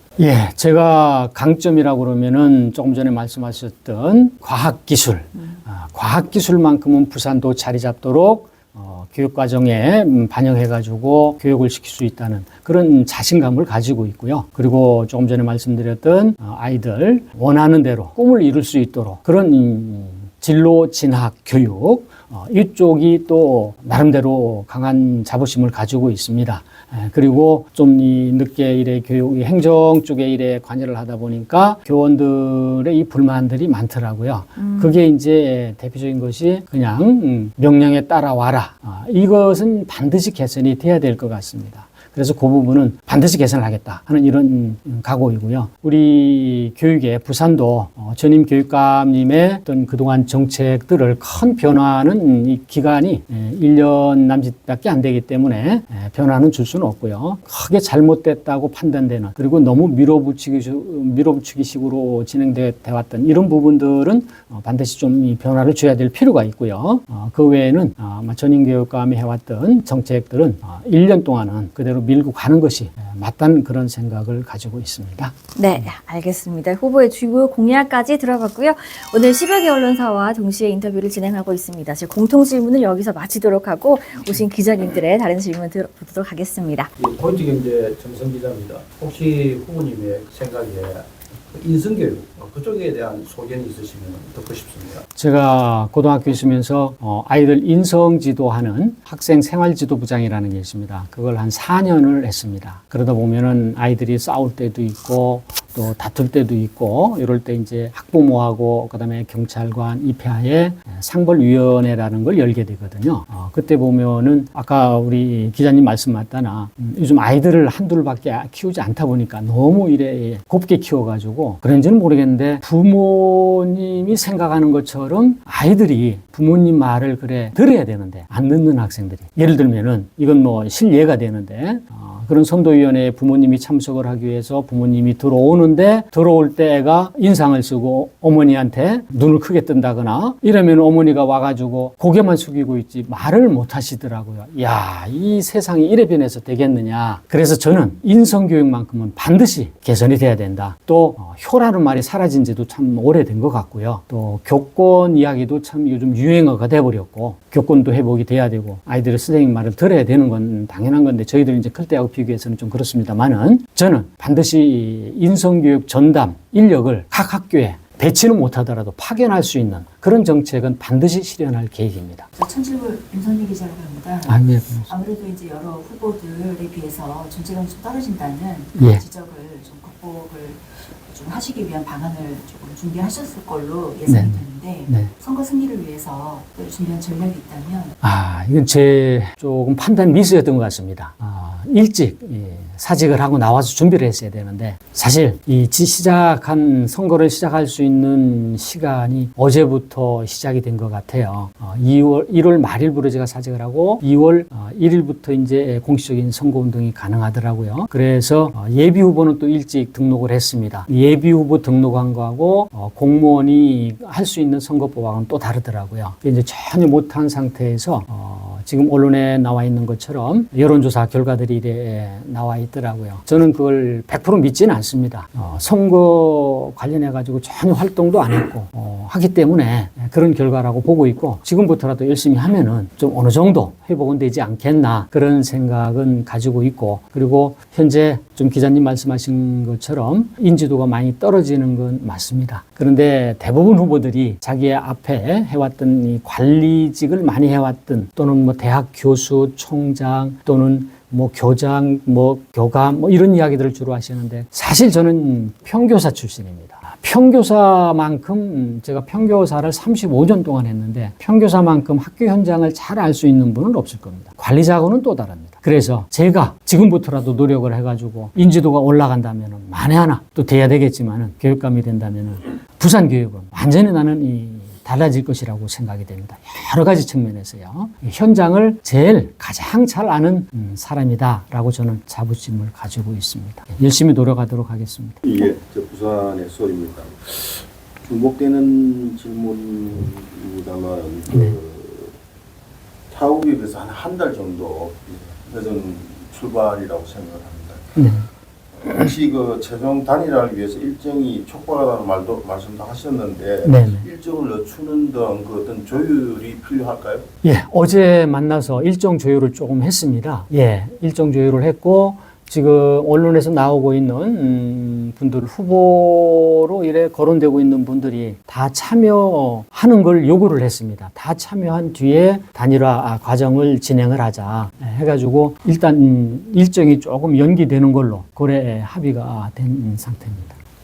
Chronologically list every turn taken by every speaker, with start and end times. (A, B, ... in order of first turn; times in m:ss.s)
0:00.2-1:15.9 A
0:34.6-0:35.0 B
1:15.6-1:26.9 B
1:27.0-1:35.0 C
1:35.2-2:52.3 A
2:52.4-2:54.4 D
2:54.3-2:54.9 A
2:54.9-3:07.9 D
2:58.8-2:59.0 A
3:04.1-3:05.1 A
3:08.0-4:45.2 A
4:45.2-4:52.2 E
4:51.3-4:51.6 A
4:53.1-4:58.0 E
4:58.0-4:58.3 A
4:58.8-5:07.3 E
5:03.6-5:04.1 A
5:07.4-5:30.6 A